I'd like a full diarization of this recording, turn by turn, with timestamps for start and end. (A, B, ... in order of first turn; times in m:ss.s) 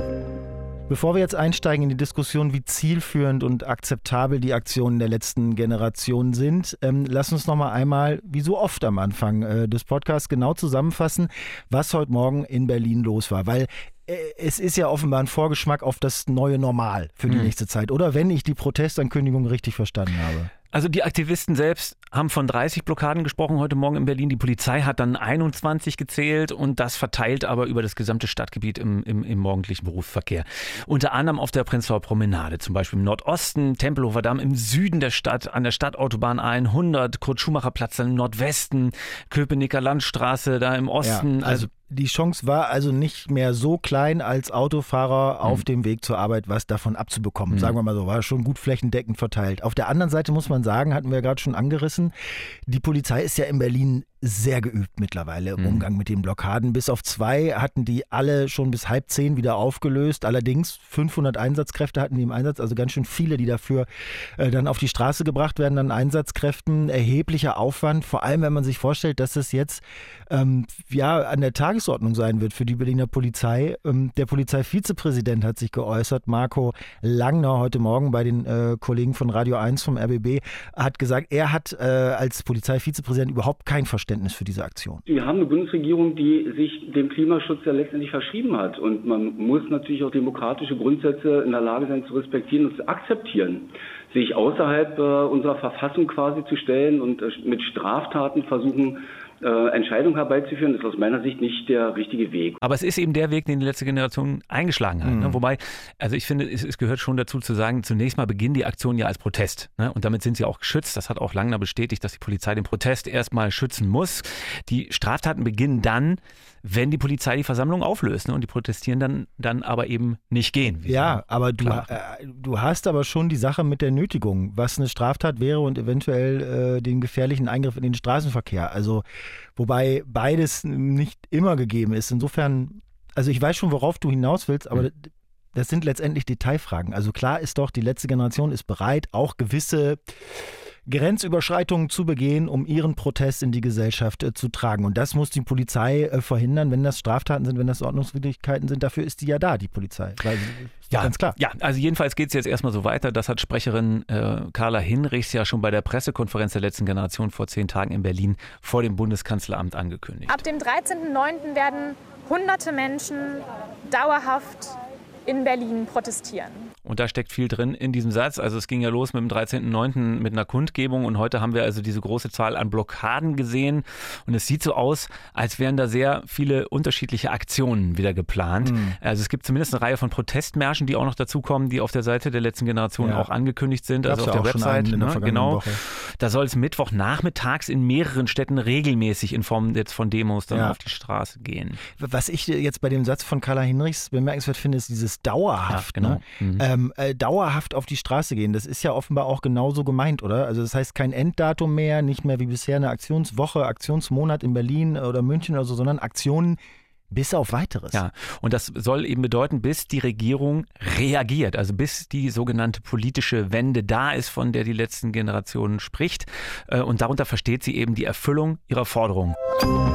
0:00.9-0:20.5 A
0:20.7-0:41.7 B
0:41.0-0:52.1 A
0:47.5-0:47.8 B
0:52.7-1:25.0 A
0:55.6-0:55.9 B
1:25.1-1:42.6 C
1:42.6-2:01.9 B
1:45.0-1:45.4 A
2:00.8-2:09.0 A
2:09.6-2:20.0 A
2:20.9-2:31.4 A
2:30.9-2:40.4 B
2:40.4-2:44.7 D
2:45.3-2:46.5 D
2:46.8-3:11.8 B
2:58.6-2:59.0 A
3:03.0-3:03.3 A
3:04.0-3:05.8 A
3:10.5-3:10.8 A
3:12.0-3:26.6 A
3:15.6-3:16.6 B
3:27.1-3:28.0 A
3:27.9-3:39.4 B